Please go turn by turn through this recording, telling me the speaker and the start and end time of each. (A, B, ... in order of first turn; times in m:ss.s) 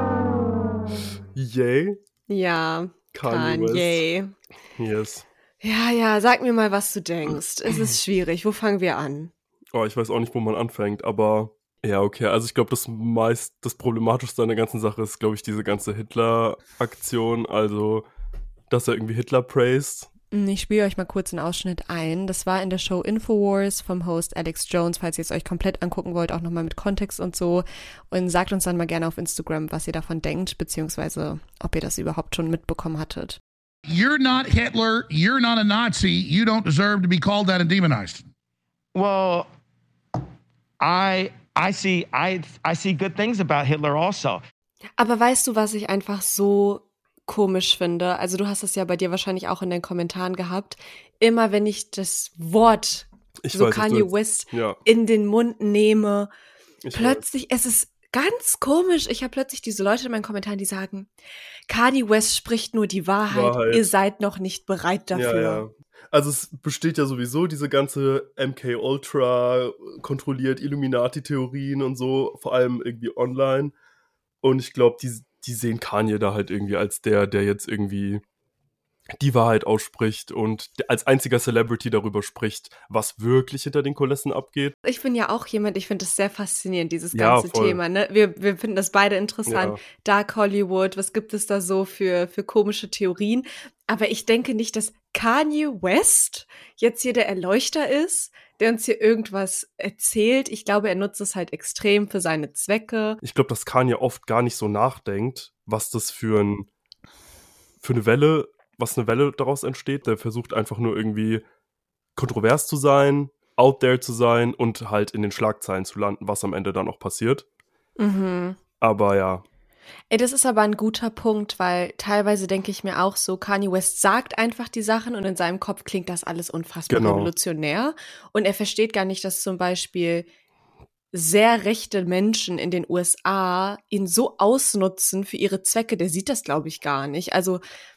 0:01.3-0:02.0 A
0:02.3-0:04.3 B
0:03.1-0:04.0 A
0:04.8-0:05.2 A
0:05.6-0:09.3 B
0:09.7-0:18.0 A
0:18.7-0:20.1 A
0:20.3-0:33.4 B
0:33.9-0:38.2 C
0:38.9-0:39.5 D
0:40.8-0:44.4 D
0:45.0-0:56.3 B
0:53.4-0:54.8 A
0:56.8-0:57.2 A
0:56.9-1:01.1 B
1:01.7-1:05.6 B
1:03.3-1:03.9 A
1:05.1-1:13.7 A
1:14.4-1:18.2 A
1:19.2-1:24.7 A
1:24.8-1:43.2 B
1:27.1-1:27.8 A
1:29.4-1:29.8 A
1:43.2-1:46.7 A
1:47.8-1:51.4 A
1:52.2-1:57.4 A
1:58.0-1:58.6 B
1:58.8-1:59.4 A
2:00.1-2:10.3 B
2:06.9-2:07.3 A
2:11.1-2:17.6 B